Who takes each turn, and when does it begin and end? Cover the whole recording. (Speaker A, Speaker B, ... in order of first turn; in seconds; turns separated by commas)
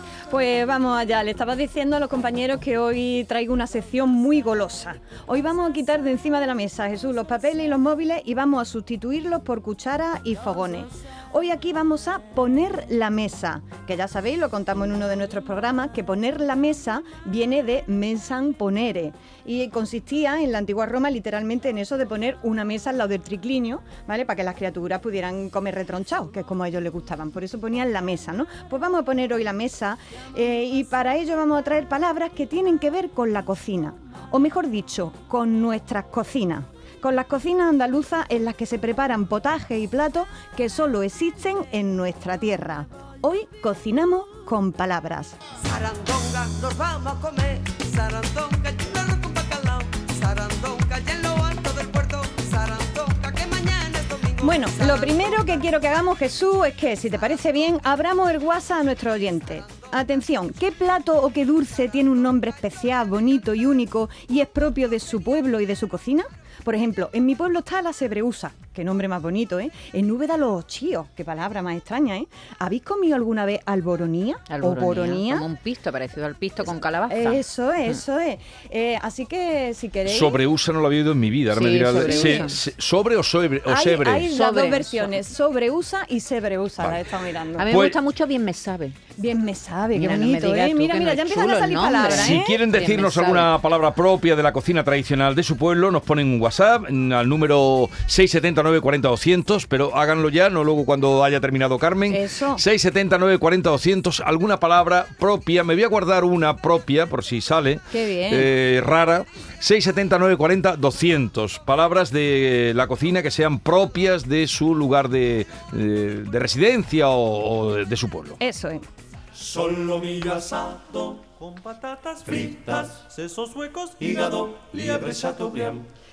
Speaker A: 0.3-45.4, Speaker B: 45.8-53.9, Speaker A: 54.4-75.5, Speaker C: 74.5-78.0, Speaker A: 77.1-80.4, Speaker D: 80.0-84.3, Speaker C: 81.5-82.6, Speaker A: 81.8-82.5, Speaker A: 83.7-87.7, Speaker C: 84.3-85.2, Speaker C: 87.6-89.0, Speaker D: 87.7-88.0, Speaker A: 89.2-92.6, Speaker C: 89.9-93.5, Speaker D: 92.1-118.4, Speaker A: 102.1-102.6, Speaker A: 107.9-108.5, Speaker A: 118.4-118.8, Speaker E: 119.4-125.8